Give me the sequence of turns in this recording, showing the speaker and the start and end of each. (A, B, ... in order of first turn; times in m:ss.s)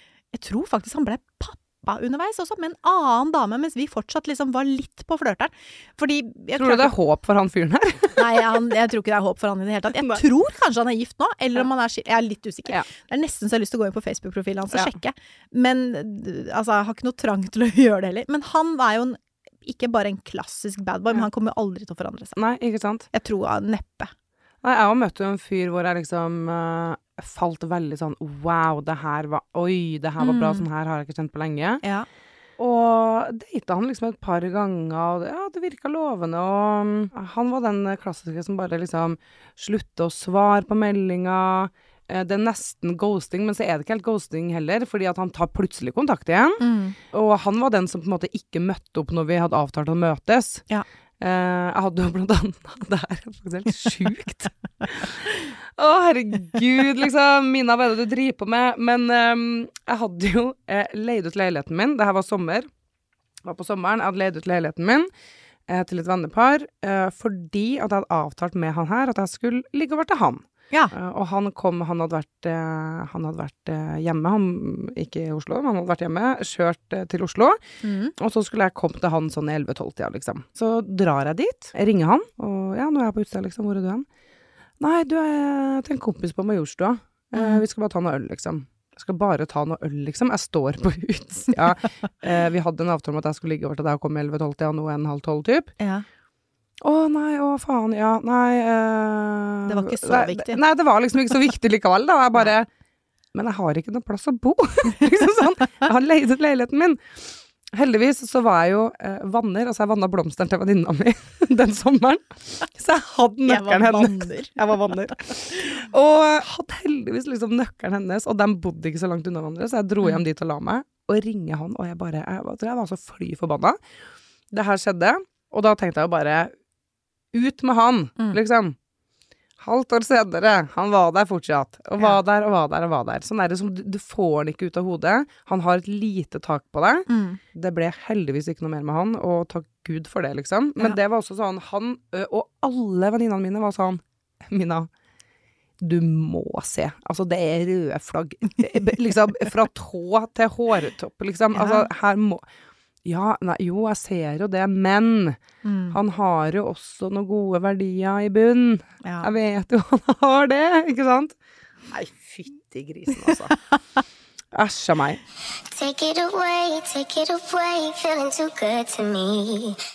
0:00.3-0:06.9 A
0:06.6-0:08.4 B
0:08.2-0:22.4 A
0:22.4-0:23.1 B
0:23.1-0:24.1 A
0:24.6-0:31.8 B
0:30.2-0:30.6 A
0:32.6-0:50.6 B
0:46.6-0:47.0 A
0:51.2-1:02.7 B
1:03.4-1:05.1 B
1:05.7-1:17.6 B
1:17.8-1:18.1 A
1:18.2-1:24.0 B
1:24.8-1:35.7 B
1:27.3-1:27.6 A
1:35.8-1:36.0 A
1:36.8-1:42.7 B
1:39.7-1:40.6 A
1:43.3-1:47.0 B
1:47.7-2:03.8 B
1:53.4-1:55.7 A
2:04.5-2:06.5 B
2:07.3-2:08.8 B
2:09.6-2:24.9 B
2:17.1-2:17.4 A
2:25.8-2:32.4 B
2:31.5-2:31.9 A
2:33.0-2:35.4 B
2:35.6-2:36.0 A
2:35.9-2:41.3 B
2:39.0-2:39.3 A
2:41.9-2:43.5 B
2:43.1-2:43.5 A
2:44.5-2:45.2 B
2:45.7-2:49.8 C